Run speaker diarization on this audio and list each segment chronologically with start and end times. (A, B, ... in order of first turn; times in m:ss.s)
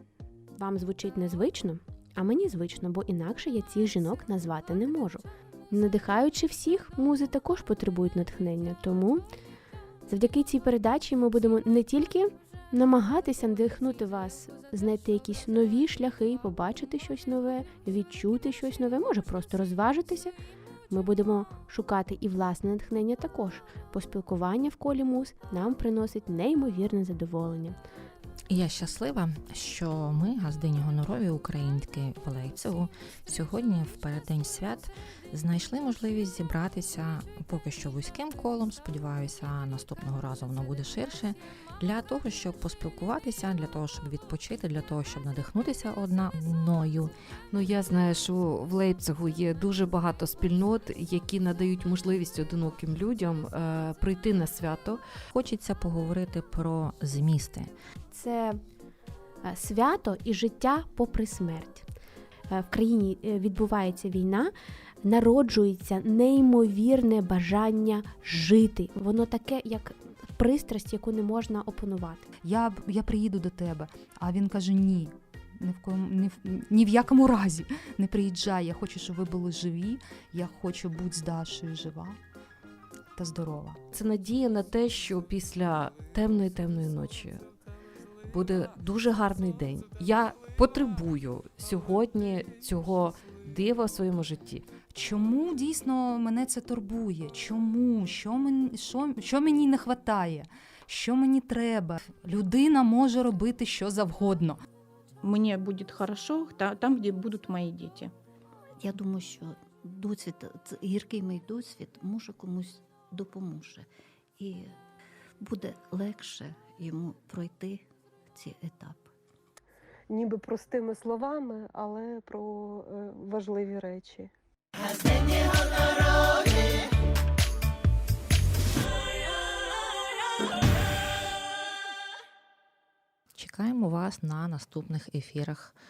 0:00.5-0:09.2 A
0:10.0-0:20.3 A
0:20.9-0:27.8 A
0:28.5-0:47.1 B
0:47.5-0:55.0 C
0:55.3-0:57.7 B
0:58.1-0:58.6 A
0:59.4-1:01.8 A
1:02.5-1:12.3 A
1:12.4-1:22.2 D
1:23.2-1:23.8 D
1:23.9-1:27.4 C
1:28.3-1:34.6 C
1:34.9-1:44.6 D
1:45.2-1:48.1 E
1:48.8-1:54.7 F
1:55.4-1:59.1 F
2:00.1-2:04.3 G
2:13.3-2:15.8 B